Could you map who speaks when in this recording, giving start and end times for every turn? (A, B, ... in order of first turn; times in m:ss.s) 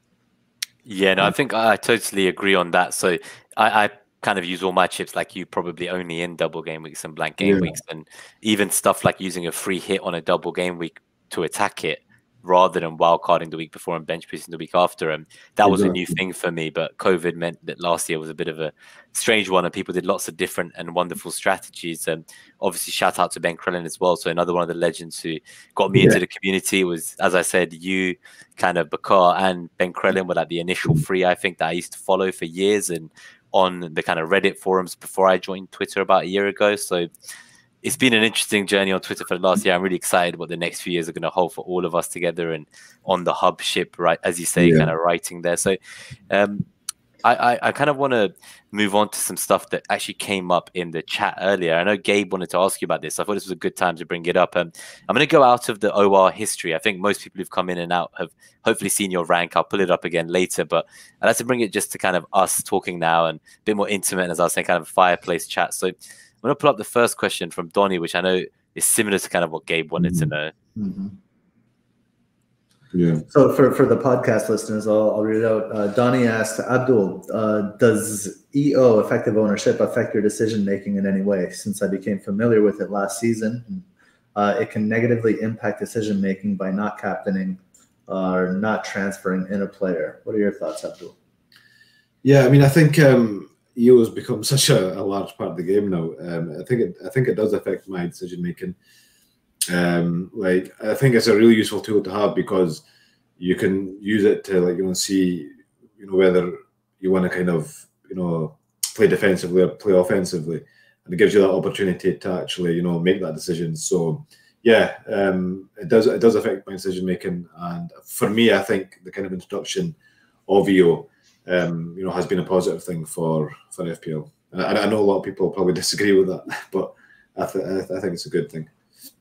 0:00.9-0:37.1 A
0:07.4-0:07.8 B
0:15.6-0:16.2 B
0:25.9-0:26.2 B
0:37.8-0:45.8 A
0:44.6-0:44.9 B
0:46.3-0:46.7 A
0:47.2-1:10.5 A
1:10.0-1:10.3 B
1:10.8-1:11.2 C
1:12.9-1:13.2 B
1:13.3-1:31.2 C
1:32.2-1:38.8 B
1:39.7-1:42.8 B
1:43.4-2:00.0 B
2:00.5-2:08.7 B